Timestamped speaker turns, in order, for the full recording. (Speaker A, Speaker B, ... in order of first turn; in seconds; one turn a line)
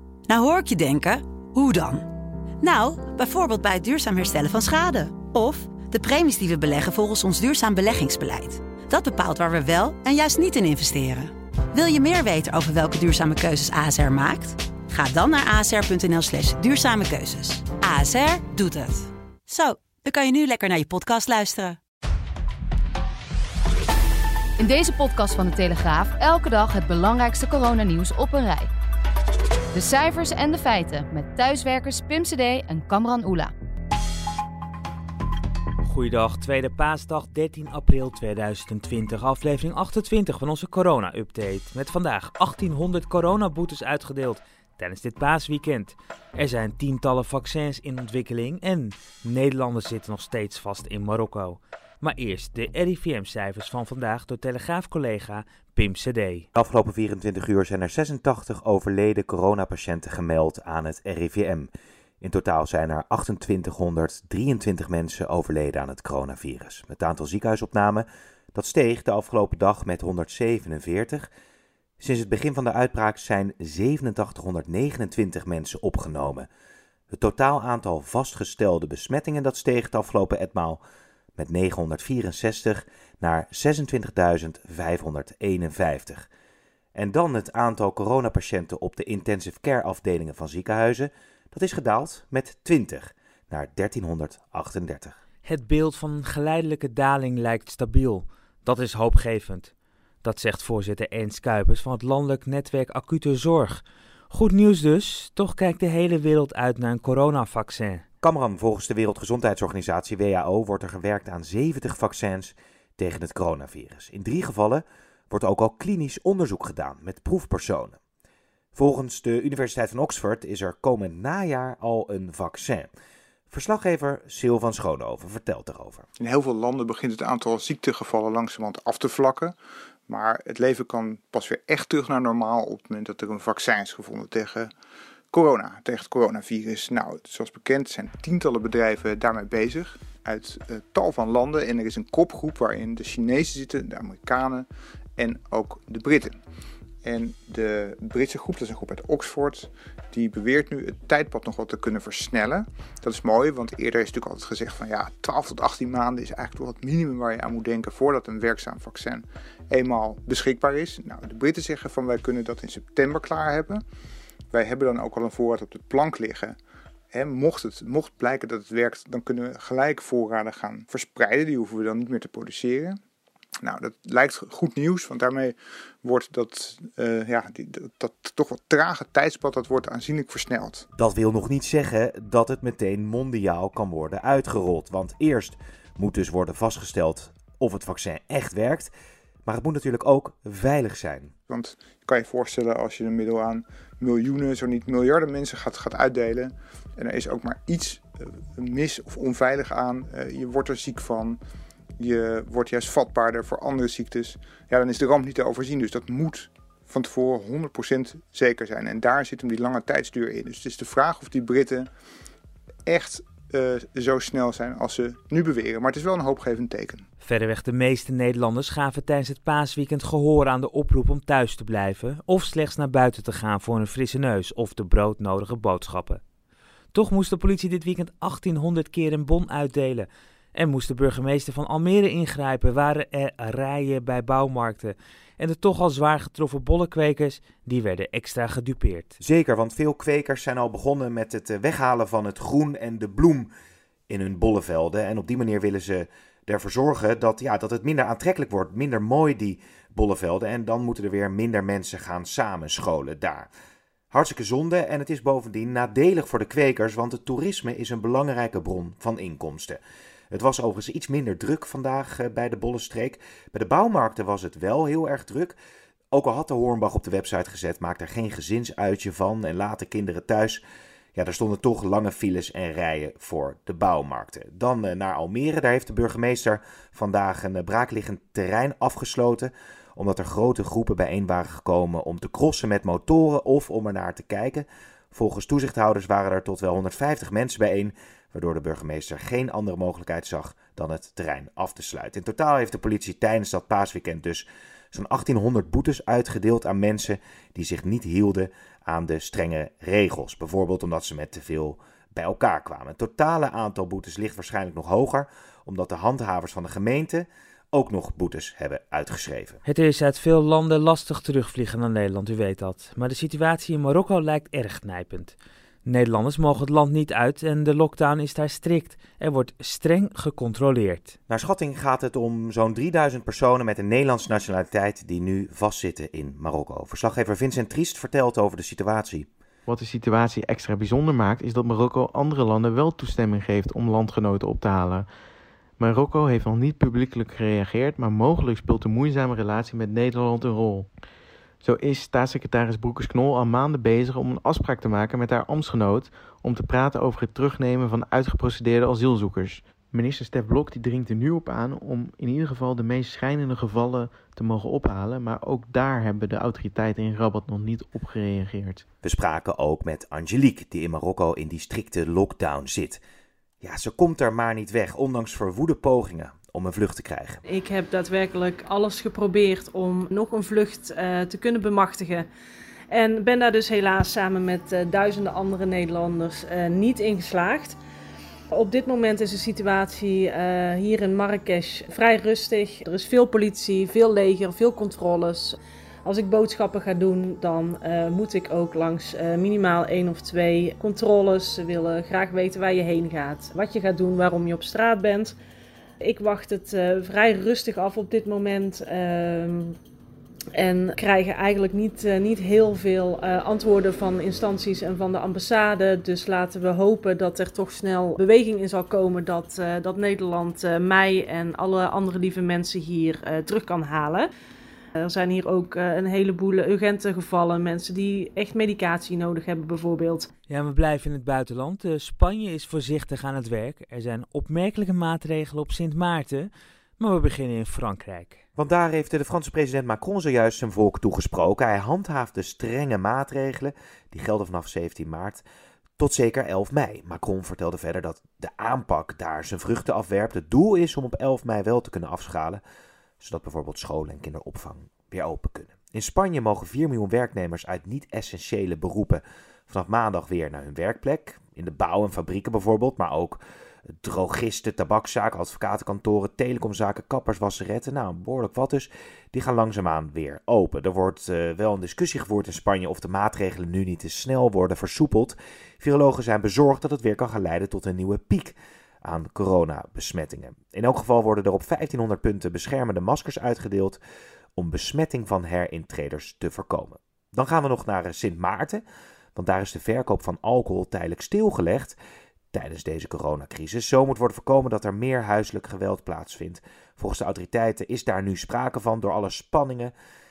Speaker A: 0.3-2.1
Speaker A: 2.6-21.8
Speaker B: 24.6-28.7
Speaker B: 29.7-33.5
Speaker C: 35.8-56.5
Speaker D: 56.5-71.3
Speaker D: 72.0-76.5
Speaker D: 77.1-80.8
Speaker D: 81.4-86.3
Speaker D: 86.9-95.2
Speaker C: 95.4-99.7
Speaker C: 100.2-108.0
Speaker D: 108.2-118.0
Speaker D: 118.8-122.9
Speaker D: 123.5-126.1
Speaker E: 126.2-129.5
Speaker E: 130.1-134.7
Speaker E: 135.3-146.4
Speaker E: 147.0-163.8
Speaker E: 164.5-166.6
Speaker E: 167.1-173.0
Speaker E: 173.6-180.9
Speaker D: 181.0-188.9
Speaker D: 189.5-191.3
Speaker E: 191.5-201.4
Speaker E: 202.0-211.9
Speaker E: 212.9-217.1
Speaker C: 217.2-226.2
Speaker C: 226.9-239.2
Speaker D: 239.2-243.5
Speaker D: 244.1-253.5
Speaker D: 254.1-259.8
Speaker D: 260.3-265.5
Speaker D: 266.1-270.6
Speaker D: 271.1-309.6
Speaker C: 309.6-321.1
Speaker D: 321.3-329.3
Speaker F: 329.7-335.1
Speaker F: 335.8-340.9
Speaker F: 341.6-358.8
Speaker D: 359.0-363.0
Speaker D: 363.6-367.4
Speaker G: 367.5-372.2
Speaker G: 372.9-377.8
Speaker G: 378.5-395.4
Speaker G: 396.0-399.8
Speaker G: 400.6-414.3
Speaker G: 415.0-420.3
Speaker C: 420.5-428.4
Speaker D: 428.6-435.4
Speaker D: 436.0-442.6
Speaker D: 443.2-453.4
Speaker D: 454.0-474.0
Speaker D: 474.6-478.8
Speaker D: 479.4-482.0
Speaker D: 482.5-489.9